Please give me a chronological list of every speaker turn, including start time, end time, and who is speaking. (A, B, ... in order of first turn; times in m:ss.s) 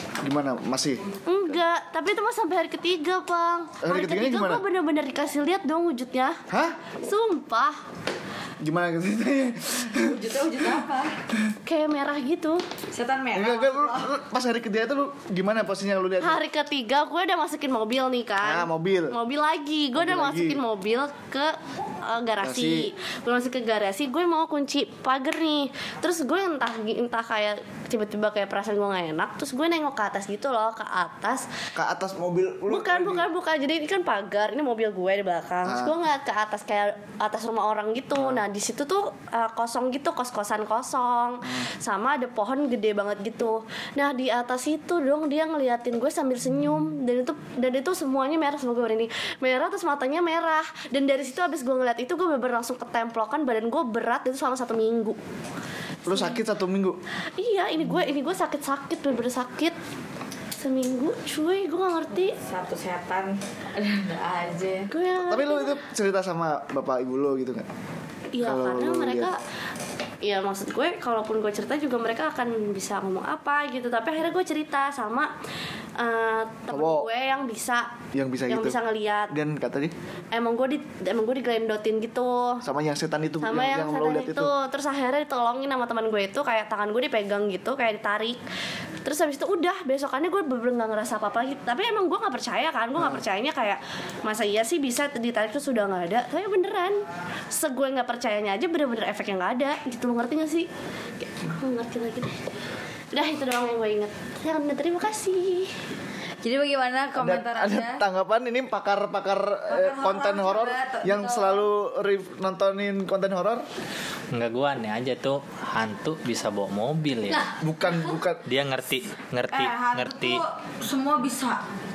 0:00.2-0:01.1 A
0:01.3-0:06.4 B
0:03.8-0:04.6 A
0:06.5-0:06.8 A
0:07.0-0:07.8 B
0:08.6-0:10.2 A
0:09.9-0:11.2 C
0:11.6-0:12.6 B
0:12.9-0:14.1 C
0:13.3-0:16.4 A
0:16.2-0:31.5 B
0:18.4-0:19.2 A
0:20.0-0:20.6 A
0:22.4-0:22.9 A
0:31.8-0:33.3 A
0:32.7-0:55.2 B
0:35.6-0:36.0 A
0:56.1-0:56.4 B
0:56.1-0:57.0 A
0:57.4-0:59.8 B
1:00.6-1:02.4 B
1:02.4-1:04.9 C
1:04.9-1:05.8 B
1:05.2-1:07.7 A
1:08.3-1:09.4 B
1:08.4-1:09.3 A
1:10.2-1:15.3 B
1:16.0-1:17.9 B
1:16.7-1:17.1 A
1:18.1-1:18.8 A
1:18.5-1:19.3 B
1:19.3-1:19.9 A
1:20.3-1:22.6 B
1:22.6-1:24.5 A
1:23.4-1:28.4 B
1:29.0-1:37.0 B
1:37.5-1:40.7 B
1:41.2-1:42.4 B
1:43.1-1:45.7 B
1:46.4-1:48.0 C
1:47.2-1:53.7 A
1:49.7-1:51.7 C
1:54.3-1:57.5 D
1:57.6-1:58.4 A
1:58.4-2:00.4 D
1:59.5-2:01.6 C